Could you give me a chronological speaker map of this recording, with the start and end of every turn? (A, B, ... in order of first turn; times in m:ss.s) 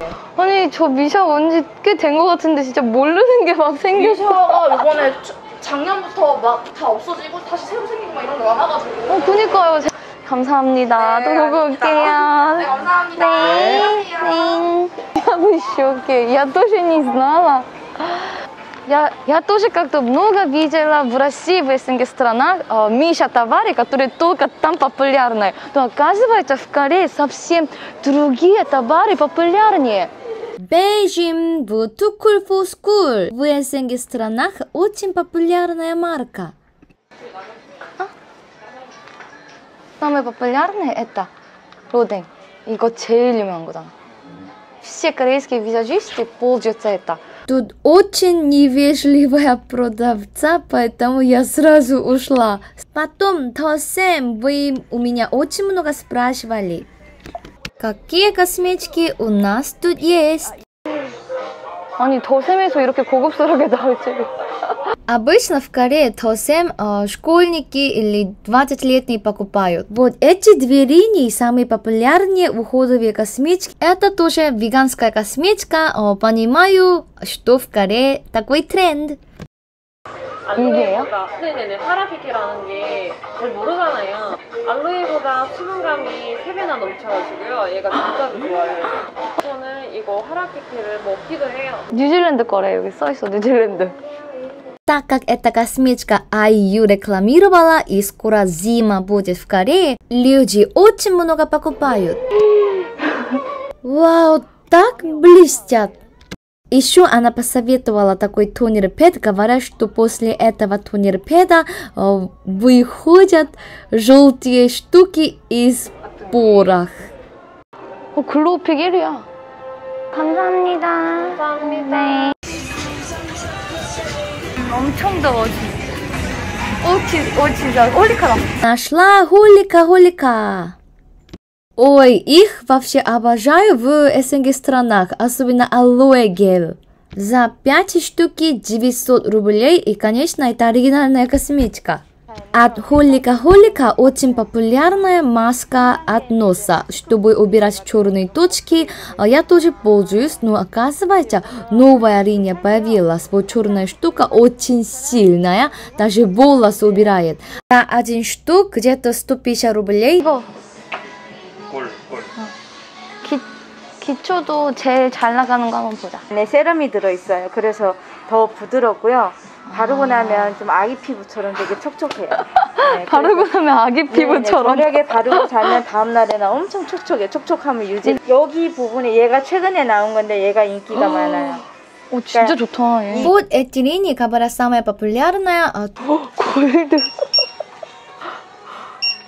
0:00.4-0:04.6 A
0:03.9-0:09.6 B
0:09.1-0:30.1 A
0:11.0-0:14.3 B
0:30.6-0:36.5 C
0:40.0-0:41.3 A
0:41.9-0:43.9 A
0:44.8-0:47.2 A
0:47.5-0:56.9 C
0:57.8-1:00.5 C
1:02.0-1:04.3 A
1:05.1-1:19.2 C
1:20.5-1:31.9 D
1:20.5-1:21.1 A
1:31.9-1:33.9 A
1:34.9-1:42.2 C
1:43.8-1:46.0 C
1:46.7-1:57.1 C
1:58.1-1:59.2 A
2:00.1-2:02.3 A
2:04.5-2:05.8 A
2:06.8-2:08.5 A
2:08.6-2:10.8 C
2:11.8-2:40.4 C
2:43.2-2:43.5 A
2:44.0-2:46.2 A
2:46.3-2:53.5 E
2:49.7-2:50.6 A
2:52.5-2:55.8 A
2:54.1-3:01.6 E
3:00.9-3:03.3 A
3:02.3-3:02.6 E
3:03.1-3:05.9 C
3:06.0-3:07.1 A